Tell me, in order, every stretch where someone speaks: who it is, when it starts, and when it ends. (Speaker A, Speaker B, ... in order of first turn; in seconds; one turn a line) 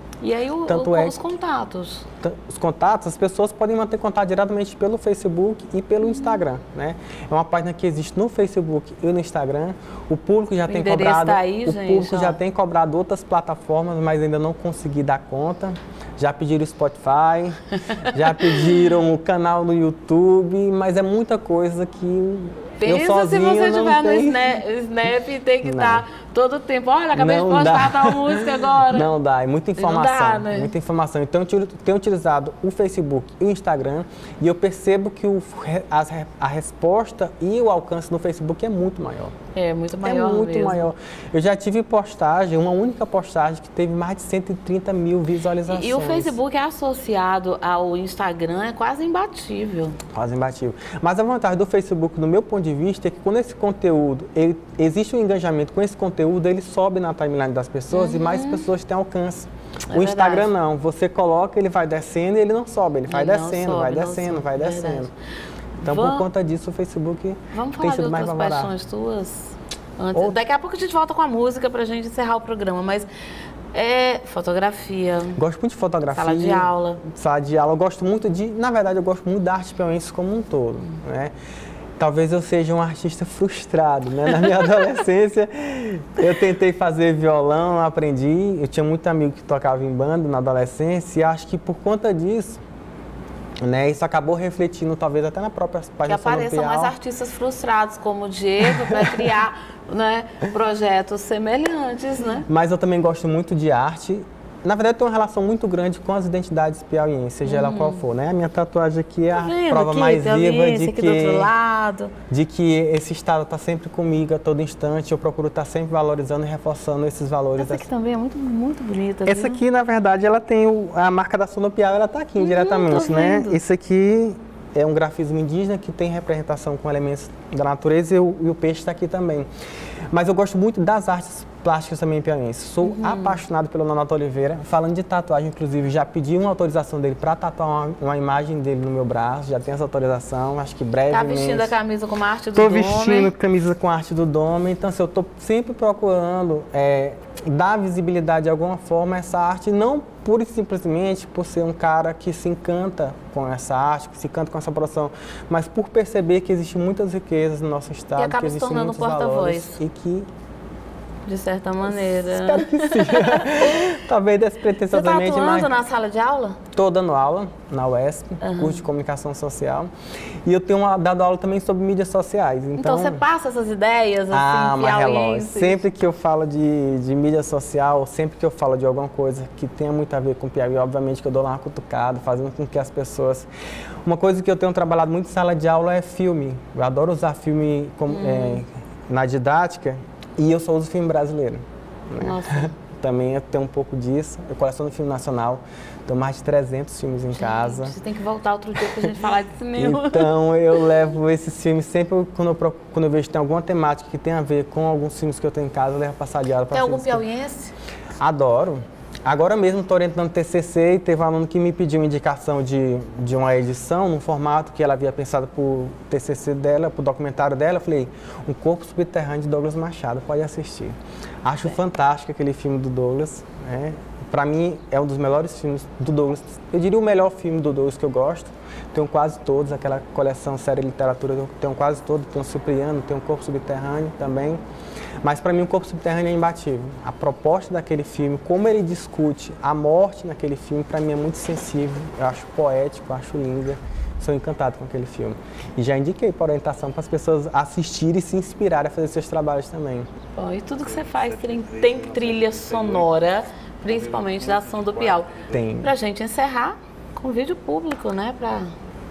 Speaker A: 0.2-2.0
Speaker B: 0.7-1.2
Speaker B: 2.2-24.6
Speaker A: 6.0-6.4
Speaker A: 10.7-12.4
Speaker A: 22.8-29.1
Speaker B: 25.6-26.1
Speaker B: 27.1-39.3
Speaker A: 29.8-30.7
Speaker A: 39.5-40.9
Speaker B: 40.0-46.4
Speaker A: 45.6-50.0
Speaker B: 50.1-65.1
Speaker A: 57.9-58.6
Speaker A: 59.9-60.5
Speaker A: 63.1-65.1
Speaker A: 65.8-66.3
Speaker B: 65.8-68.7
Speaker A: 67.5-73.1
Speaker B: 70.1-70.4
Speaker A: 73.7-75.4
Speaker B: 75.3-81.3
Speaker A: 76.1-77.0
Speaker B: 82.0-92.6
Speaker B: 93.6-96.9
Speaker A: 96.1-102.5
Speaker B: 98.7-99.3
Speaker B: 102.5-111.5
Speaker A: 107.4-108.0
Speaker A: 109.3-112.1
Speaker B: 112.3-117.9
Speaker A: 117.6-119.6
Speaker B: 119.2-129.5
Speaker A: 122.4-123.6
Speaker B: 130.1-141.7
Speaker A: 132.8-133.4
Speaker A: 141.1-143.3
Speaker B: 142.5-160.3
Speaker A: 158.2-159.8
Speaker A: 161.2-163.8
Speaker B: 161.9-165.7
Speaker A: 164.9-166.6
Speaker B: 166.7-169.9
Speaker A: 168.4-168.8
Speaker B: 170.4-173.2
Speaker A: 172.8-175.8
Speaker B: 174.3-183.5
Speaker B: 184.0-197.9
Speaker A: 188.1-188.6
Speaker A: 192.2-192.7
Speaker A: 197.3-200.8
Speaker B: 199.8-207.2
Speaker A: 206.7-207.7
Speaker B: 208.2-234.6
Speaker B: 235.2-250.1
Speaker A: 250.3-258.7
Speaker B: 255.5-255.9